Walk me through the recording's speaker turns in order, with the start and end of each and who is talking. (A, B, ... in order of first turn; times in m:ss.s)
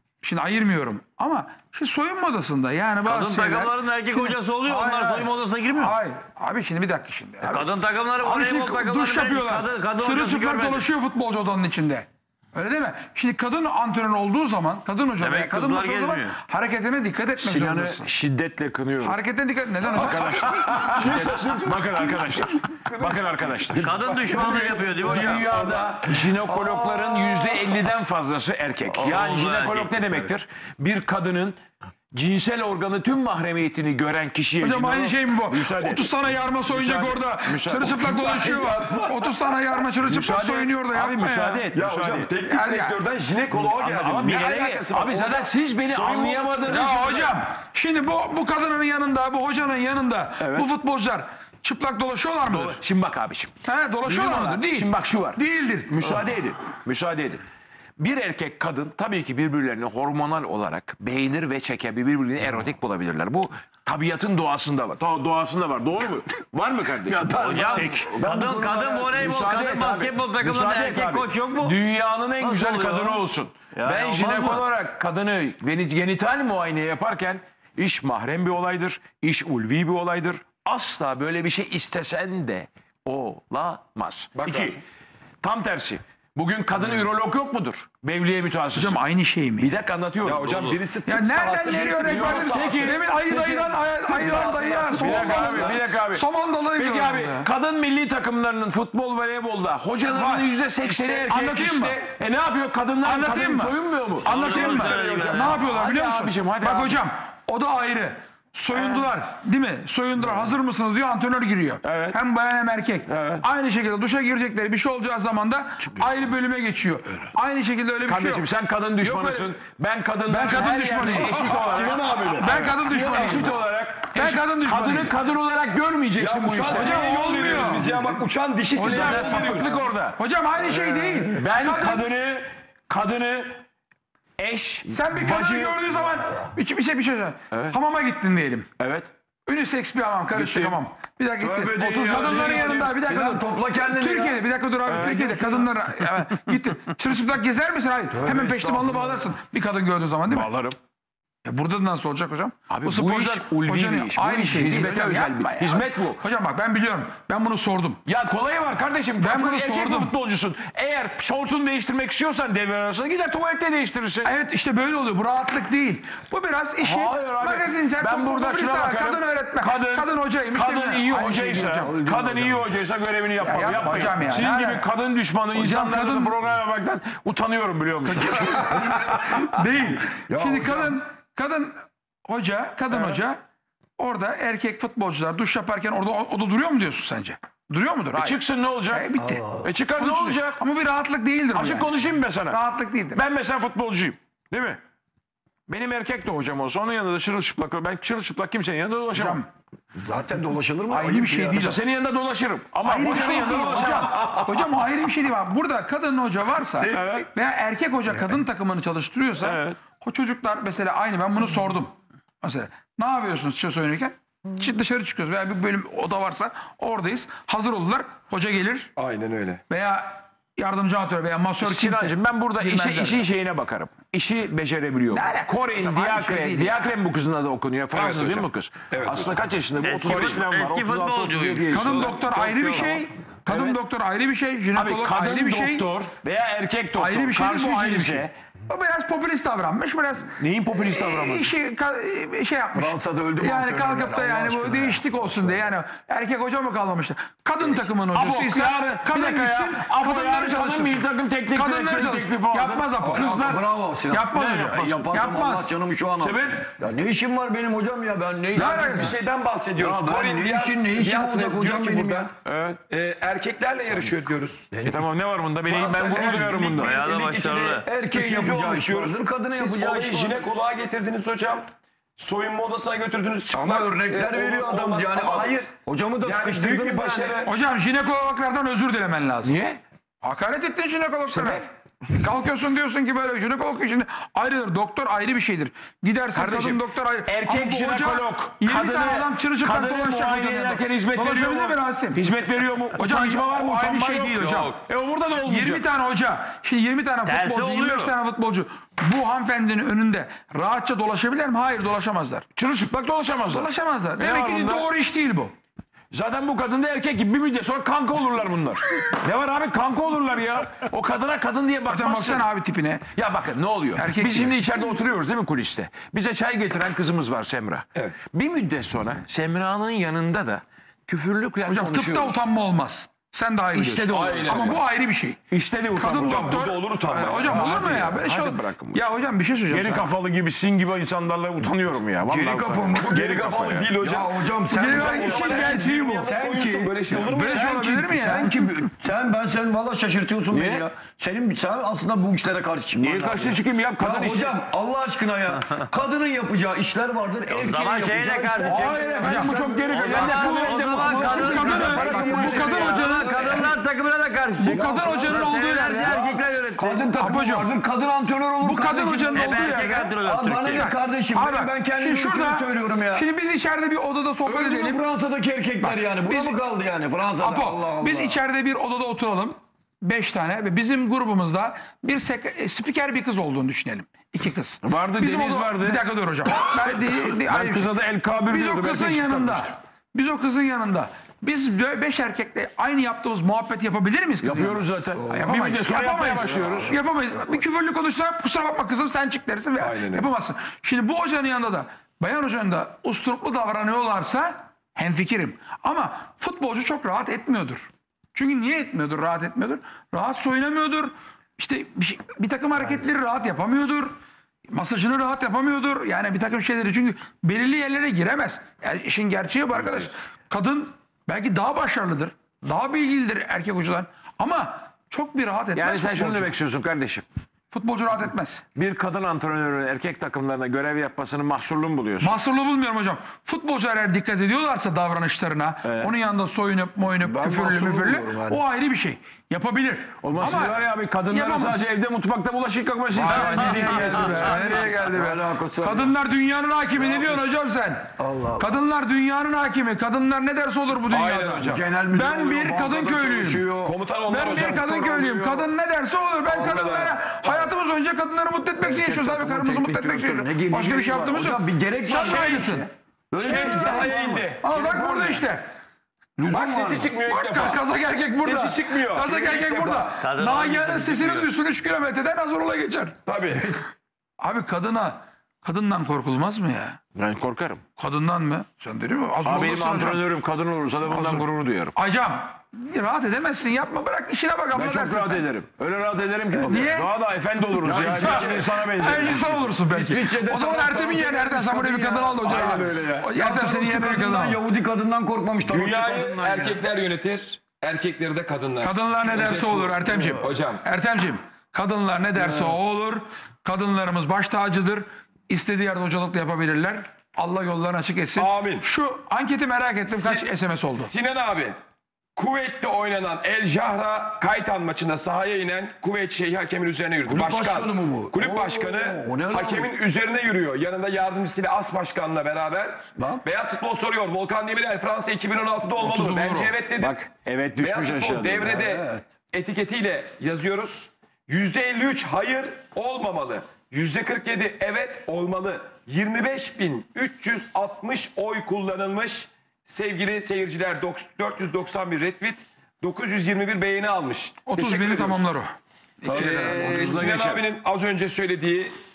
0:00.2-0:07.7 A
0:03.0-0:06.0 B
0:07.4-0:10.8 B
0:08.2-0:18.1 A
0:15.2-0:16.4 B
0:17.4-0:19.2 C
0:19.0-0:21.3 A
0:19.8-0:31.6 C
0:20.4-0:25.1 D
0:23.8-0:25.7 B
0:25.3-0:27.6 E
0:29.0-0:30.1 B
0:32.1-0:36.1 C
0:34.6-0:41.7 A
0:36.7-0:38.5 C
0:38.2-0:39.3 D
0:40.1-0:42.3 C
0:41.7-0:46.7 D
0:42.5-0:43.0 A
0:43.5-0:47.4 C
0:46.6-0:52.8 A
0:50.4-0:50.7 C
0:52.4-0:53.5 C
0:53.6-0:56.0 A
0:54.0-0:57.4 C
0:58.0-1:24.8 C
1:07.0-1:08.5 E
1:07.3-1:11.8 B
1:12.4-1:14.6 B
1:24.4-1:24.8 D
1:25.4-1:29.0 C
1:28.7-1:29.7 A
1:29.6-1:30.8 C
1:30.2-1:33.0 D
1:31.0-1:37.5 A
1:31.7-1:34.5 C
1:34.0-1:35.8 D
1:35.0-1:47.0 C
1:40.0-1:40.5 A
1:40.9-1:41.2 D
1:41.1-1:42.0 A
1:43.0-1:58.4 A
1:44.2-1:45.6 B
1:44.3-1:45.2 D
1:48.7-1:49.1 C
1:50.2-1:50.5 C
1:51.8-1:52.2 C
1:53.1-1:53.4 C
1:58.0-2:07.6 C
1:59.0-1:59.6 A
2:00.3-2:01.6 A
2:01.4-2:02.6 D
2:02.0-2:02.4 E
2:02.4-2:03.5 A
2:04.1-2:05.1 A
2:06.2-2:09.8 D
2:06.7-2:07.9 A
2:08.8-2:12.0 A
2:08.8-2:10.2 C
2:10.7-2:11.3 E
2:11.3-2:13.6 C
2:14.4-2:15.9 C
2:14.9-2:18.7 A
2:17.5-2:17.8 C
2:18.8-2:19.1 C
2:19.5-2:30.5 A
2:20.3-2:20.8 C
2:21.4-2:24.4 E
2:22.0-2:22.9 C
2:24.8-2:25.7 C
2:28.1-2:29.3 E
2:30.3-2:30.8 C
2:31.4-2:38.0 A
2:32.7-2:36.2 C
2:38.0-2:44.3 C
2:39.2-2:40.1 A
2:44.2-2:51.6 A
2:46.8-2:59.0 C
2:51.2-2:52.7 E
2:53.4-2:54.8 A
2:55.5-2:56.3 A
2:58.1-3:03.4 A
2:58.8-2:59.0 E
3:00.3-3:01.0 E
3:02.9-3:03.2 C
3:04.0-3:08.4 A
3:08.1-3:09.1 C
3:08.9-3:09.4 A
3:09.2-3:09.7 E
3:09.6-3:10.6 C
3:10.0-3:11.9 A
3:11.5-3:12.6 C
3:12.5-3:13.2 A
3:13.1-3:14.8 C
3:15.7-3:19.4 C
3:19.1-3:19.5 A
3:20.0-3:21.6 E
3:20.9-3:21.8 A
3:21.5-3:24.7 C
3:22.8-3:38.9 A
3:26.7-3:27.2 E
3:26.9-3:27.3 C
3:29.4-3:29.8 C
3:39.0-3:39.6 D
3:39.7-3:43.2 A
3:41.6-3:53.8 C
3:45.1-3:46.9 A
3:47.9-3:49.4 D
3:49.8-3:52.8 B
3:51.7-3:55.9 A
3:54.7-3:58.3 C
3:57.0-4:15.7 A
4:00.4-4:01.5 C
4:02.7-4:05.7 E
4:08.1-4:13.6 C
4:13.0-4:19.2 E
4:14.4-4:14.8 C
4:16.2-4:16.7 C
4:18.5-4:19.2 A
4:18.5-4:22.3 D
4:19.8-4:22.3 E
4:22.4-4:22.8 C
4:22.9-4:24.7 D
4:24.7-4:25.0 E
4:24.8-4:27.0 C
4:25.6-4:35.7 D
4:26.2-4:26.6 E
4:26.7-4:27.8 B
4:27.8-4:30.5 E
4:33.5-4:37.4 E
4:36.2-4:37.5 D
4:37.4-4:39.5 A
4:39.4-4:39.8 C
4:40.2-4:52.3 A
4:41.3-4:41.6 C
4:46.3-4:55.8 C
4:53.0-4:54.8 A
4:55.4-5:02.4 A
4:57.2-4:58.1 B
5:02.5-5:04.9 C
5:03.5-5:05.5 A
5:06.1-5:12.5 C
5:11.9-5:13.0 A
5:13.1-5:22.4 C
5:14.0-5:14.6 A
5:21.7-5:25.4 A
5:23.7-5:24.8 C
5:24.1-5:24.8 D
5:25.5-5:26.7 C
5:26.0-5:30.1 A
5:26.1-5:27.9 D
5:27.4-5:29.1 C
5:29.7-5:33.9 C
5:32.2-5:33.1 E
5:32.9-5:37.8 D
5:34.0-5:49.8 E
5:34.7-5:36.3 A
5:37.2-5:38.7 A
5:40.5-5:40.9 C
5:43.0-5:44.6 C
5:47.5-5:57.1 B
5:48.6-5:53.2 C
5:49.2-5:53.6 A
5:51.0-5:53.8 E
5:54.6-5:56.2 A
5:54.6-6:03.2 E
5:57.2-5:57.7 A
5:58.6-6:05.0 A
5:59.3-6:00.9 B
6:04.4-6:08.4 E
6:05.8-6:06.6 A
6:07.4-6:44.1 A
6:14.8-6:19.7 C
6:24.4-6:27.0 C
6:25.2-6:25.6 E
6:26.4-6:27.0 E
6:29.8-6:30.3 D
6:44.7-6:56.5 A
6:55.7-6:57.3 C
6:57.7-6:58.6 A
6:58.7-7:02.4 C
7:02.2-7:11.9 A
7:05.8-7:06.1 C
7:07.2-7:08.6 E
7:10.2-7:14.8 C
7:13.2-7:23.7 A
7:13.2-7:16.1 E
7:17.0-7:17.5 E
7:18.2-7:18.7 E
7:21.1-7:21.8 D
7:21.6-7:24.0 E
7:23.8-7:25.4 D
7:24.3-7:32.9 A
7:24.8-7:25.6 E
7:26.5-7:27.7 D
7:26.5-7:27.1 E
7:28.8-7:35.4 E
7:32.1-7:32.6 D
7:33.4-7:34.6 D
7:33.4-7:35.7 A
7:36.4-7:37.1 E
7:36.5-7:37.8 D
7:37.2-7:43.2 A
7:38.4-7:40.8 D
7:40.2-7:41.4 B
7:43.2-7:43.8 D
7:44.4-7:47.0 A
7:47.1-7:47.8 C
7:48.0-7:50.2 A
7:49.4-7:51.9 C
7:51.1-7:55.5 A
7:54.7-7:59.8 C
7:56.7-7:57.1 A
7:57.8-8:06.8 E
7:57.9-8:04.6 A
8:02.4-8:03.1 D
8:05.6-8:10.8 D
8:08.8-8:21.1 A
8:12.4-8:12.8 E
8:18.4-8:18.8 D
8:20.1-8:21.8 D
8:22.4-8:37.2 D
8:27.2-8:29.9 E
8:33.2-8:33.4 E
8:36.0-8:38.8 C
8:37.8-8:55.5 D
8:38.6-8:39.2 E
8:54.6-8:56.7 A
8:56.2-8:57.4 E
8:56.3-8:58.9 D
8:56.3-8:57.6 C